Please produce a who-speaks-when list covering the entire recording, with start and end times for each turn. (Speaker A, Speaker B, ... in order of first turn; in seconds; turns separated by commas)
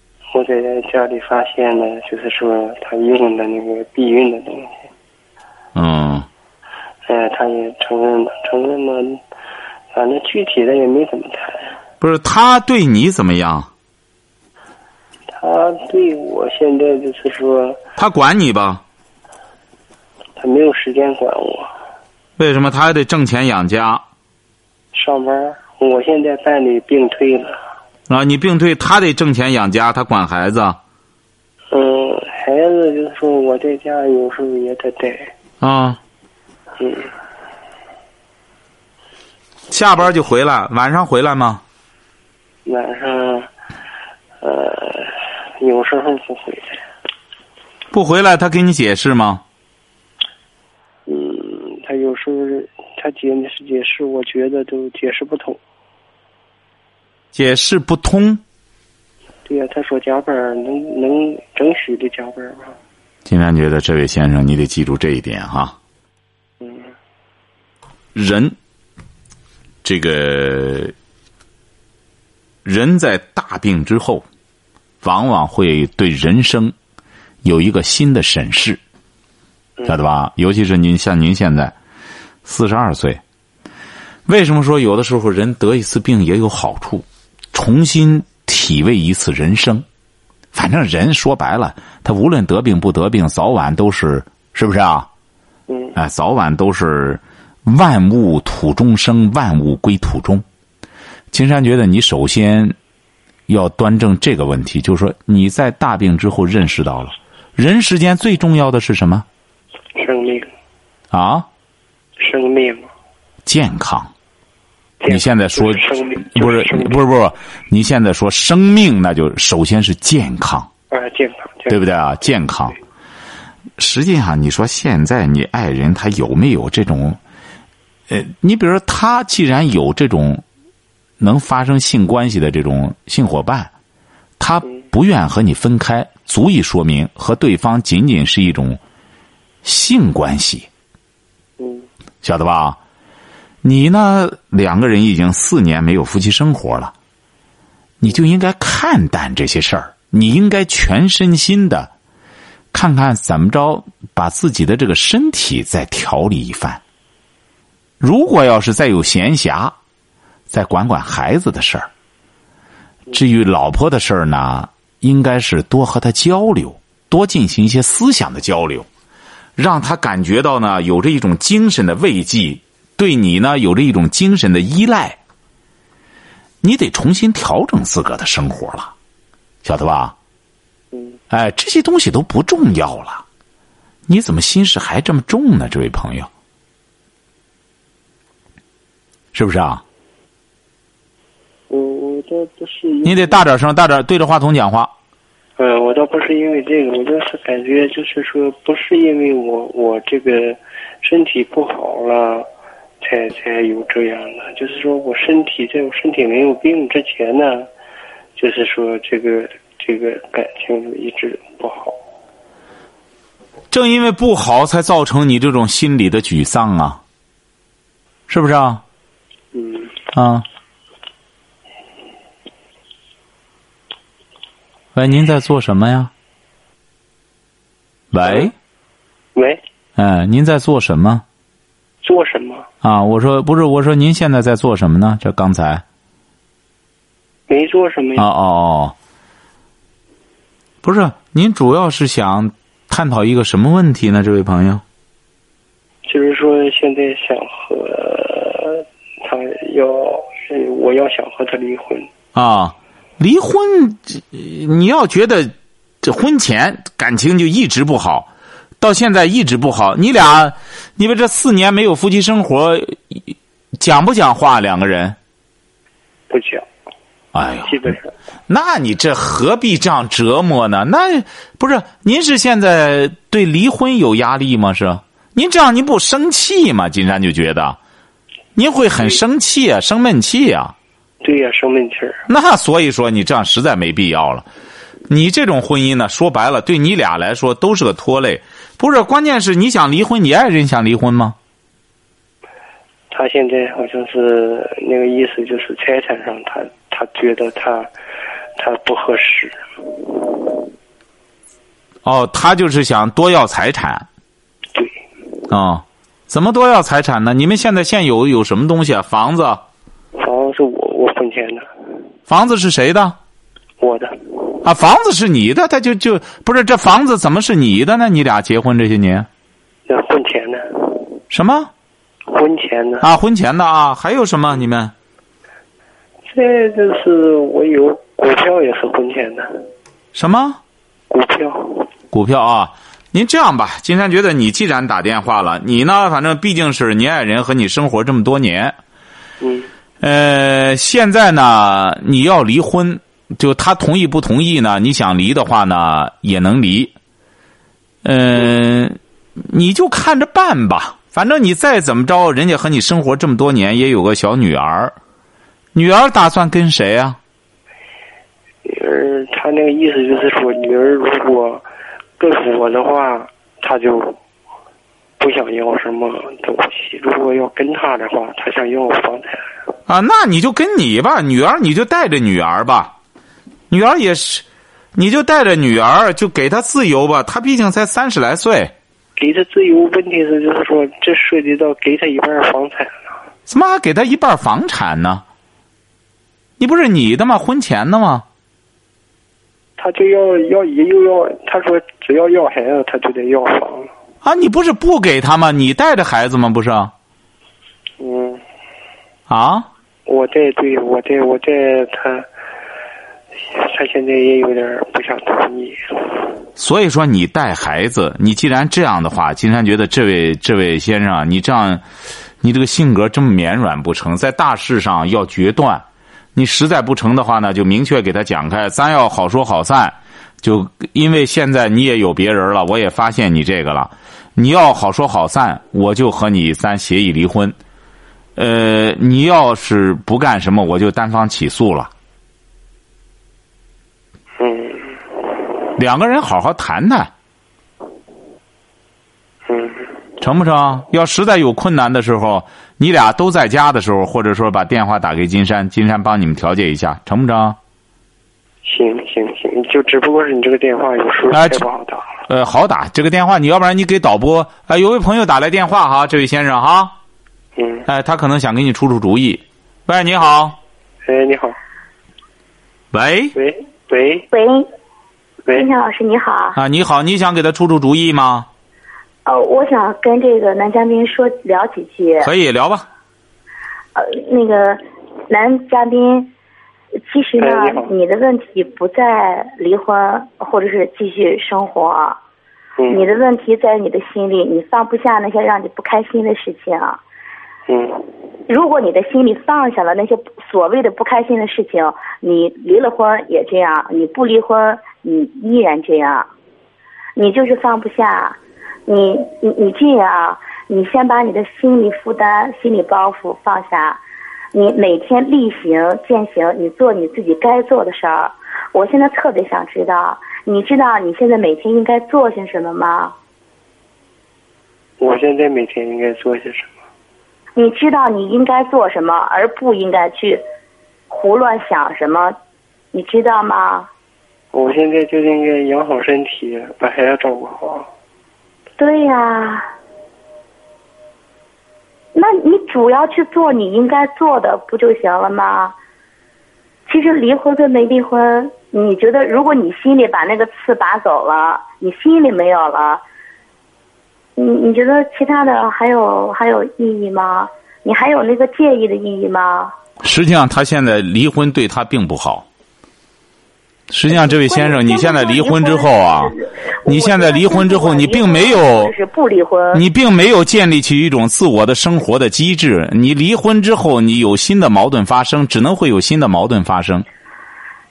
Speaker A: 0.3-4.9, Speaker B: 5.8-6.3, Speaker A: 7.1-9.2, Speaker A: 9.9-11.7, Speaker B: 12.0-13.7, Speaker A: 15.3-17.8, Speaker B: 18.0-18.8, Speaker A: 20.4-21.7, Speaker B: 22.4-24.0, Speaker A: 24.9-27.6, Speaker B: 28.1-30.8, Speaker A: 31.7-35.3, Speaker B: 35.6-36.0, Speaker A: 36.8-37.1, Speaker B: 39.7-41.6, Speaker A: 42.6-43.5, Speaker A: 44.4-46.8, Speaker B: 47.9-49.4, Speaker A: 51.1-55.6, Speaker B: 57.3-58.4, Speaker A: 59.5-62.8, Speaker B: 63.3-65.8, Speaker A: 66.6-66.9, Speaker B: 68.2-68.6, Speaker B: 69.8-70.9, Speaker B: 72.7-74.2, Speaker B: 75.0-76.7, Speaker B: 77.4-78.8, Speaker B: 79.8-81.8, Speaker B: 82.5-83.2, Speaker B: 84.3-89.8, Speaker B: 90.5-95.1, Speaker A: 95.7-96.0, Speaker B: 96.0-100.5, Speaker B: 101.3-102.8, Speaker B: 103.5-109.3, Speaker A: 110.0-110.5, Speaker B: 111.1-111.5, Speaker A: 112.2-112.9, Speaker B: 113.5-114.1, Speaker A: 115.0-117.0, Speaker B: 115.1-120.7, Speaker A: 120.9-121.8, Speaker B: 121.7-122.8, Speaker B: 123.8-127.2, Speaker B: 128.1-130.4, Speaker B: 131.2-133.7, Speaker B: 134.4-138.8, Speaker B: 139.6-140.7, Speaker A: 141.6-141.9, Speaker B: 142.2-142.8, Speaker B: 143.6-146.9, Speaker B: 148.0-151.9, Speaker B: 152.7-156.8, Speaker B: 158.0-159.8, Speaker B: 160.5-161.9, Speaker B: 163.1-168.9, Speaker B: 169.6-175.2, Speaker B: 176.6-178.9, Speaker B: 179.6-180.2, Speaker A: 180.9-181.2, Speaker B: 181.3-183.2, Speaker B: 184.1-186.3, Speaker B: 189.3-189.8, Speaker A: 191.7-193.4, Speaker B: 193.1-194.9, Speaker A: 195.6-202.5, Speaker A: 203.0-207.7, Speaker A: 208.4-212.0, Speaker B: 213.7-217.0, Speaker B: 218.3-218.8, Speaker A: 219.5-220.0, Speaker B: 220.1-220.5, Speaker B: 224.9-226.1, Speaker B: 228.1-228.5, Speaker A: 228.2-228.5, Speaker A: 229.3-229.6, Speaker B: 230.0-231.2, Speaker A: 232.0-232.7, Speaker B: 232.8-235.8, Speaker A: 237.5-238.3, Speaker B: 238.2-238.9, Speaker B: 240.8-244.8, Speaker A: 246.1-252.1, Speaker B: 252.3-265.2, Speaker A: 266.3-266.7, Speaker B: 267.3-267.9, Speaker A: 267.6-268.1, Speaker B: 268.5-277.8, Speaker B: 278.6-280.7, Speaker A: 281.2-282.3, Speaker B: 282.3-284.5, Speaker B: 285.1-291.4, Speaker A: 293.1-297.9, Speaker A: 298.6-300.6, Speaker B: 302.1-304.1, Speaker A: 304.7-305.0, Speaker B: 305.5-309.6, Speaker A: 310.2-311.7, Speaker B: 312.3-313.2, Speaker A: 313.8-314.6, Speaker B: 314.6-319.3, Speaker A: 319.9-321.2, Speaker B: 321.3-321.7, Speaker A: 322.3-323.1, Speaker B: 323.0-324.9, Speaker A: 326.3-329.7, Speaker B: 330.1-330.6, Speaker A: 331.1-331.9, Speaker B: 332.1-338.8, Speaker A: 339.4-339.7, Speaker B: 340.0-346.9, Speaker B: 348.0-355.0, Speaker B: 355.7-357.2, Speaker A: 358.6-361.6, Speaker A: 362.2-364.2, Speaker A: 365.2-369.5, Speaker B: 369.9-372.9, Speaker B: 373.7-378.7, Speaker A: 379.2-383.2, Speaker B: 383.5-385.2, Speaker B: 386.6-388.2, Speaker A: 389.8-393.9, Speaker B: 394.2-396.9, Speaker A: 398.0-398.4, Speaker B: 399.3-399.7, Speaker A: 400.1-402.3, Speaker A: 403.5-405.8, Speaker B: 406.6-411.8, Speaker B: 412.4-427.6, Speaker B: 428.4-431.9, Speaker A: 434.4-435.0, Speaker B: 435.8-437.1, Speaker A: 439.5-439.9, Speaker B: 440.2-447.6, Speaker A: 448.6-452.2, Speaker B: 451.3-451.6, Speaker B: 452.3-456.9, Speaker A: 457.6-457.9, Speaker B: 457.9-460.6, Speaker A: 461.1-461.6, Speaker B: 462.9-463.4, Speaker A: 463.3-464.3, Speaker C: 464.3-464.7, Speaker C: 465.5-466.6, Speaker B: 466.6-468.5, Speaker C: 469.2-472.3, Speaker B: 472.2-472.9, Speaker C: 473.9-476.3, Speaker C: 477.1-482.2, Speaker A: 477.4-477.9, Speaker A: 482.8-483.1, Speaker C: 482.9-487.0, Speaker A: 487.7-488.1, Speaker C: 488.5-496.3, Speaker C: 497.2-504.0, Speaker C: 504.5-513.1, Speaker A: 515.0-516.8, Speaker C: 517.6-520.4, Speaker C: 521.1-522.4, Speaker C: 522.9-523.9, Speaker A: 524.5-527.9, Speaker C: 528.8-529.7, Speaker C: 532.1-535.8, Speaker C: 536.9-543.0, Speaker C: 544.4-549.8, Speaker B: 550.0-552.5, Speaker B: 553.9-556.3, Speaker C: 554.1-559.8, Speaker B: 556.9-558.9, Speaker B: 559.7-567.1